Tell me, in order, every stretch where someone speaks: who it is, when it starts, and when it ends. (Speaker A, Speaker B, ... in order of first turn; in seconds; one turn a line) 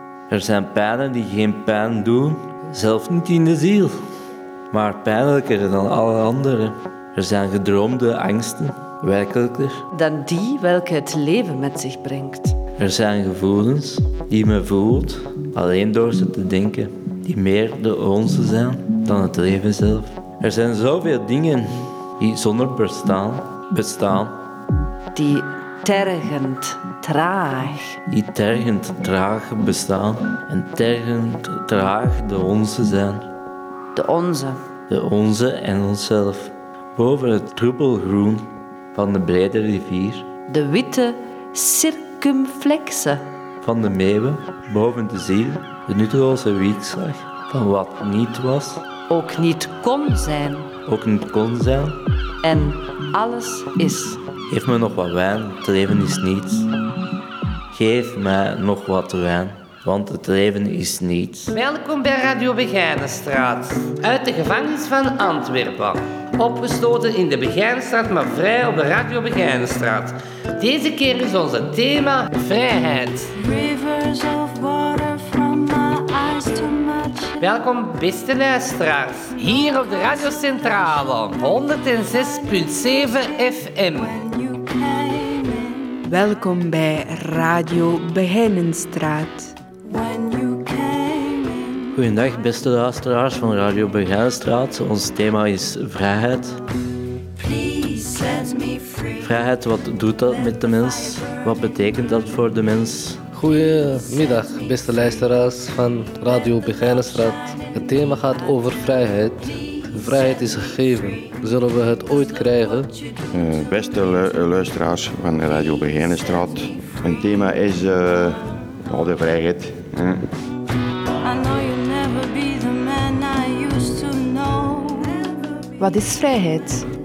Speaker A: 0.3-4.0
Speaker A: 4.7-9.8
Speaker B: 9.9-12.6
Speaker A: 12.8-24.4
Speaker B: 25.1-28.0
Speaker A: 28.1-33.3
Speaker B: 34.0-34.6
Speaker A: 34.9-40.2
Speaker B: 40.5-43.2
Speaker A: 43.6-48.8
Speaker B: 49.1-50.7
Speaker A: 50.9-52.0
Speaker B: 52.4-54.2
Speaker A: 54.5-56.7
Speaker A: 57.7-61.5
Speaker C: 61.5-73.3
Speaker D: 73.3-77.4
Speaker C: 77.4-84.1
Speaker D: 83.9-86.1
Speaker E: 86.1-89.5
Speaker D: 89.8-92.0
Speaker A: 92.0-96.6
Speaker D: 97.4-99.3
Speaker A: 99.2-103.2
Speaker D: 100.7-101.4
Speaker F: 103.4-112.9
Speaker G: 113.3-120.3
Speaker D: 121.2-125.9